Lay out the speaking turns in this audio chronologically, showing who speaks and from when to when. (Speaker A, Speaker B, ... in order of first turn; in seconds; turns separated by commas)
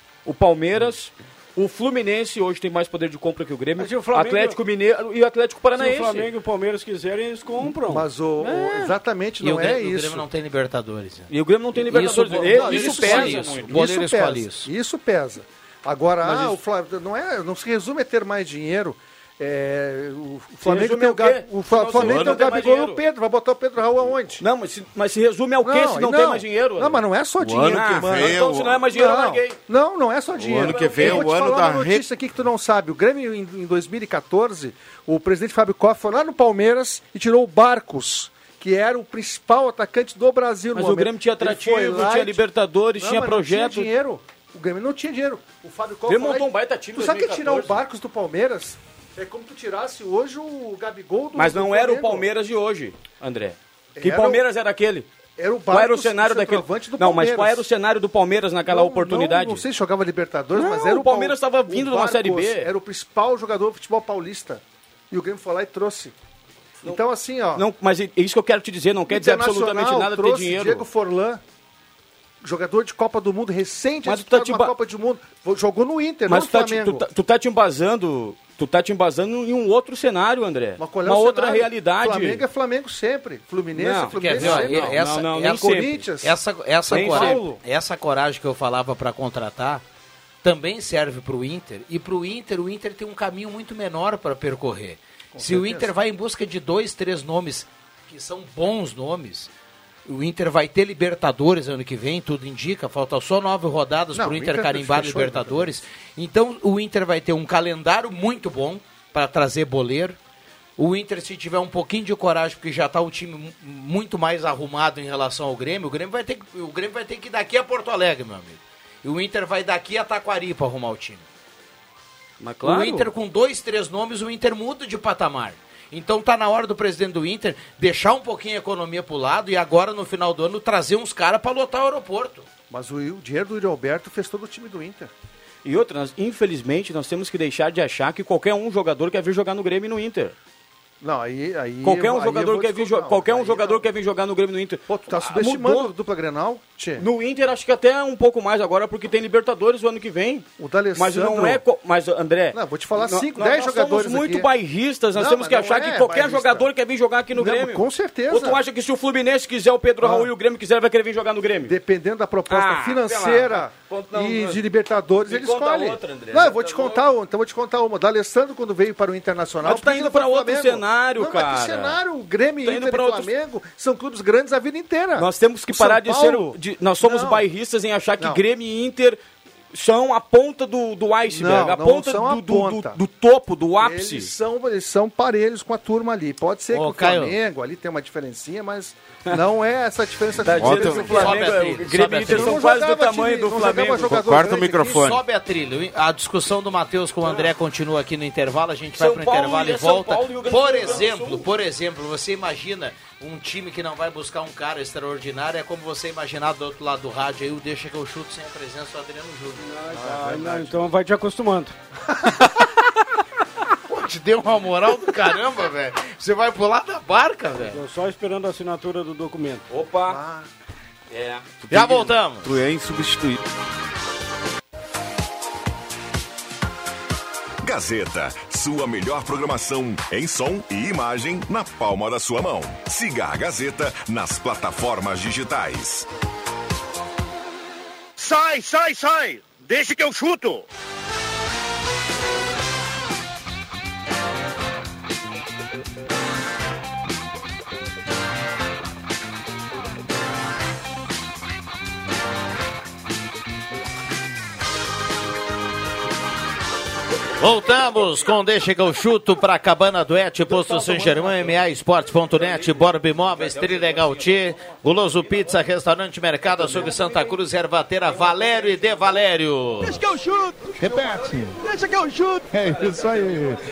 Speaker A: 0.2-6.3, Speaker B: 3.8-4.6, Speaker B: 5.8-8.1, Speaker C: 7.9-10.2, Speaker A: 8.4-8.9, Speaker D: 9.4-11.3, Speaker A: 11.3-13.7, Speaker D: 11.8-14.7, Speaker C: 12.0-24.4, Speaker A: 16.2-16.6, Speaker A: 20.6-23.0, Speaker E: 21.9-22.5, Speaker A: 24.4-27.1, Speaker C: 25.6-42.4, Speaker E: 27.4-28.8, Speaker A: 27.6-29.6, Speaker E: 30.4-32.0, Speaker A: 30.5-31.3, Speaker A: 40.7-43.9, Speaker C: 43.0-52.3, Speaker A: 46.1-47.8, Speaker A: 51.3-55.1, Speaker C: 54.0-54.4, Speaker C: 55.4-57.6, Speaker A: 55.7-59.6, Speaker C: 58.7-66.1, Speaker A: 60.5-62.7, Speaker C: 66.8-67.6, Speaker A: 67.5-70.8, Speaker C: 69.1-71.4, Speaker C: 72.4-77.0, Speaker A: 74.0-74.7, Speaker A: 76.3-82.4, Speaker C: 80.8-87.6, Speaker A: 83.7-86.0, Speaker D: 84.1-89.8, Speaker A: 86.9-87.5, Speaker D: 90.4-99.5, Speaker C: 95.3-95.9, Speaker D: 100.0-110.2, Speaker C: 104.1-105.7, Speaker D: 110.8-121.2, Speaker A: 122.4-123.1, Speaker D: 122.6-132.5, Speaker C: 132.7-135.1, Speaker A: 135.6-140.3, Speaker C: 141.0-143.8, Speaker A: 141.8-145.9, Speaker C: 144.9-147.1, Speaker A: 147.0-161.7, Speaker C: 150.6-151.6, Speaker C: 152.5-154.5, Speaker C: 155.1-156.7, Speaker C: 157.3-158.6, Speaker C: 160.0-160.3, Speaker C: 161.7-177.4, Speaker A: 162.5-164.6, Speaker A: 165.2-167.1, Speaker A: 169.6-172.0, Speaker A: 172.6-173.3, Speaker A: 175.2-179.2, Speaker A: 179.7-184.3, Speaker C: 181.3-183.0, Speaker C: 183.8-191.5, Speaker D: 186.7-187.3, Speaker A: 190.4-194.2, Speaker E: 190.5-191.3, Speaker D: 191.0-192.6, Speaker C: 192.2-195.0, Speaker E: 194.0-195.2, Speaker D: 194.9-209.7, Speaker A: 199.0-201.4, Speaker B: 209.6-211.7, Speaker C: 209.9-210.8, Speaker D: 212.3-212.6, Speaker D: 213.8-217.8, Speaker B: 217.6-219.6, Speaker A: 219.7-220.2, Speaker C: 220.0-220.5, Speaker A: 221.1-221.4, Speaker E: 221.6-223.4, Speaker D: 221.7-222.5, Speaker F: 227.6-236.1, Speaker G: 238.2-240.7, Speaker D: 257.4-270.0, Speaker A: 260.5-261.6, Speaker A: 262.3-264.5, Speaker A: 266.6-267.3, Speaker C: 270.8-271.4, Speaker A: 272.6-273.5, Speaker C: 272.7-273.5